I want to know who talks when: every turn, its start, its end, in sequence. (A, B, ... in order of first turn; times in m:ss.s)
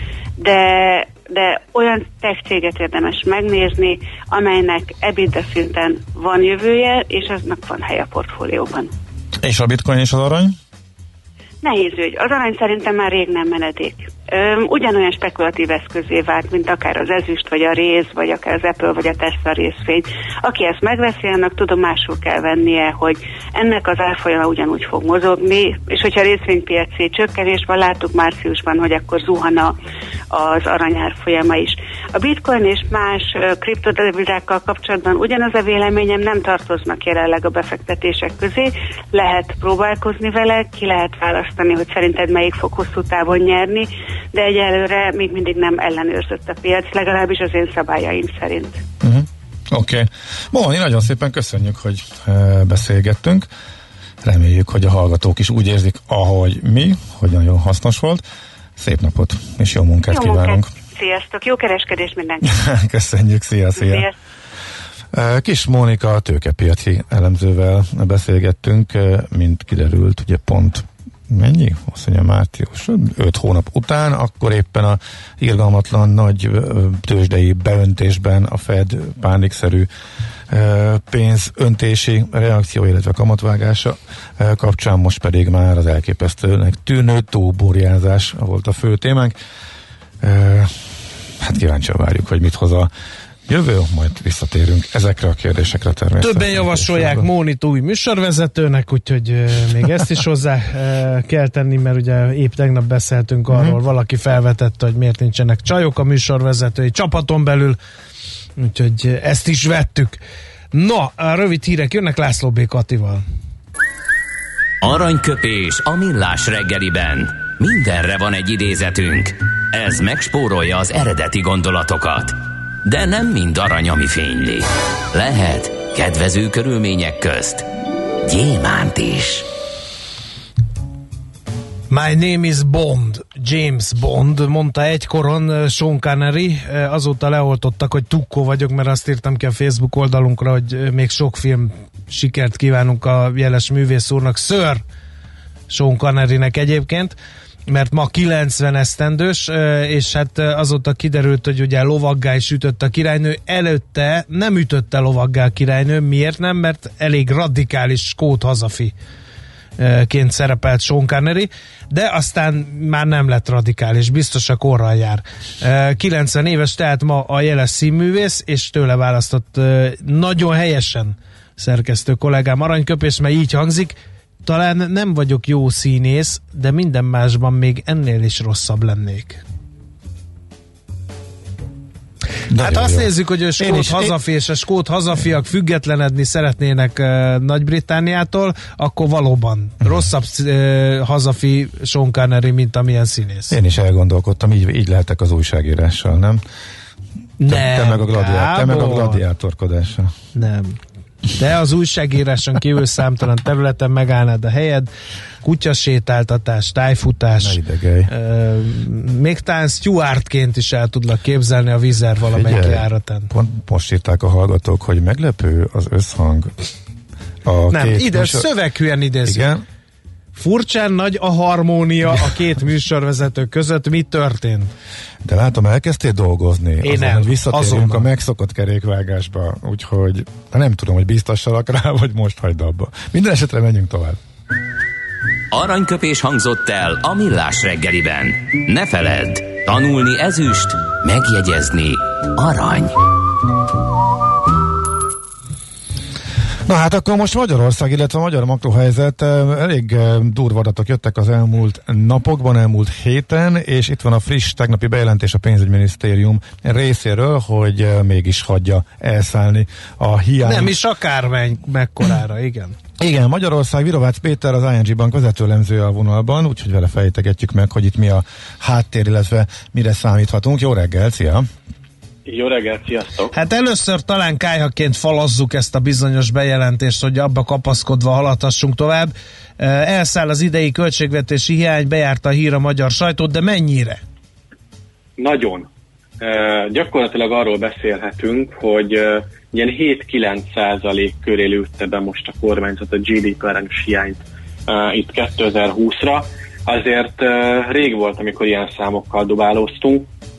0:00.4-0:08.9 A
0:09.4-0:10.5 B
0:11.6-0:29.7 A
0:30.3-0:48.8 A
0:49.0-0:53.5 B
0:54.2-0:58.2 B
0:58.8-1:00.7 B
1:00.1-1:02.6 A
1:02.4-1:04.0 B
1:03.8-1:04.1 A
1:05.1-1:19.9 B
1:20.5-1:29.3 B
1:30.2-1:30.9 B
1:31.4-1:32.9 B
1:33.5-1:37.3 B
1:36.2-1:47.8 C
1:43.5-1:43.8 B
1:48.6-1:50.2 C
1:50.7-1:53.2 C
1:54.8-2:07.7 D
2:08.2-2:09.4 D
2:11.9-2:24.8 C
2:25.7-2:27.1 C
2:27.7-2:38.9 C
2:39.8-2:59.4 C
3:02.5-3:04.2 B
3:02.6-3:13.5 C
3:13.5-3:16.4 B
3:17.4-3:19.2 C
3:17.5-3:20.1 B
3:20.3-3:20.8 C
3:21.3-3:24.9 C
3:25.4-3:27.6 C
3:27.4-3:28.1 B
3:28.1-3:33.3 C
3:32.3-3:36.5 B
3:37.4-3:38.5 B
3:37.7-3:39.5 C
3:39.2-3:39.6 B
3:40.3-3:44.7 C
3:45.2-3:54.2 B
3:46.8-3:48.0 C
3:55.5-4:02.9 D
4:06.6-4:20.7 B
4:20.4-4:22.8 C
4:23.0-4:31.5 B
4:32.2-4:33.3 E
4:33.3-4:44.0 C
4:45.2-4:45.7 E
4:46.2-5:00.1 E